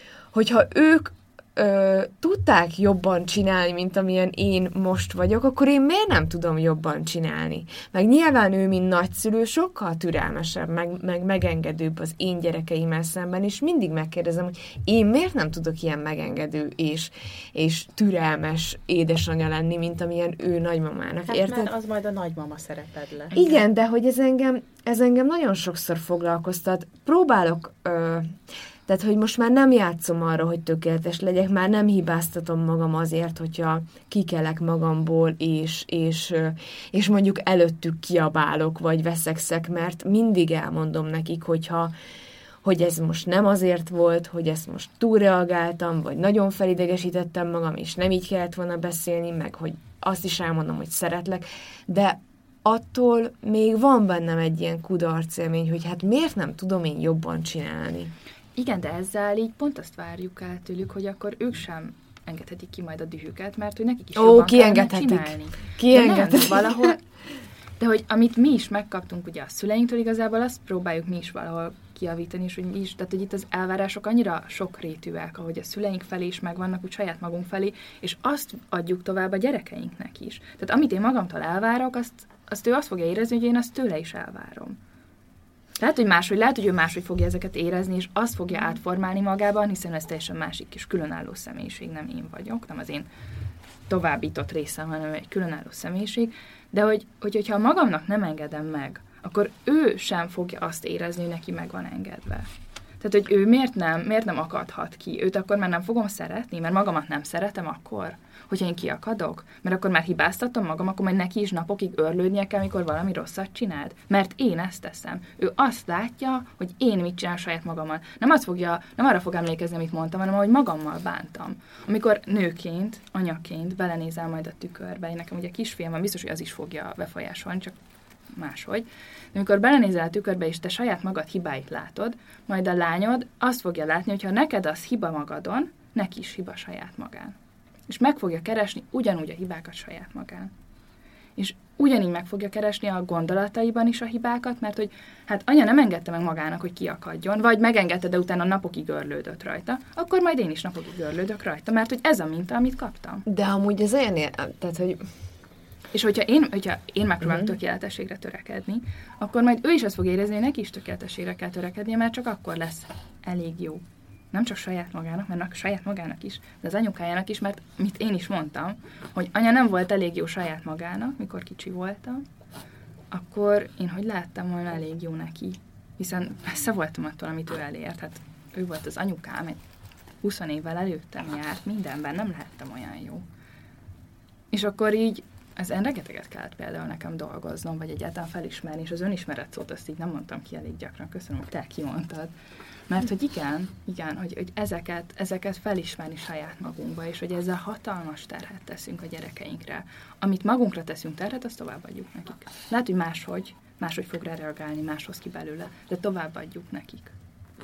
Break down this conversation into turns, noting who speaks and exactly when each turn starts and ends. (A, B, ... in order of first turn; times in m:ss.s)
0:00.3-0:21.7 A
0:21.3-0:23.3 B
0:23.3-0:23.6 C
0:23.3-0:41.9 A
0:42.6-0:58.1 A
0:58.6-1:07.0 C
1:04.2-1:06.9 A
1:07.8-1:24.8 C
1:25.8-1:33.1 C
1:33.9-1:42.5 C
1:43.0-2:07.8 C
2:08.3-2:17.4 C
2:17.9-2:20.5 C
2:21.4-2:33.2 C
2:33.2-2:35.1 A
2:35.9-2:52.2 C
2:37.2-2:37.5 A
2:53.1-2:59.6 C
3:00.2-3:03.2 C
3:04.5-3:12.3 C
3:12.9-3:27.1 C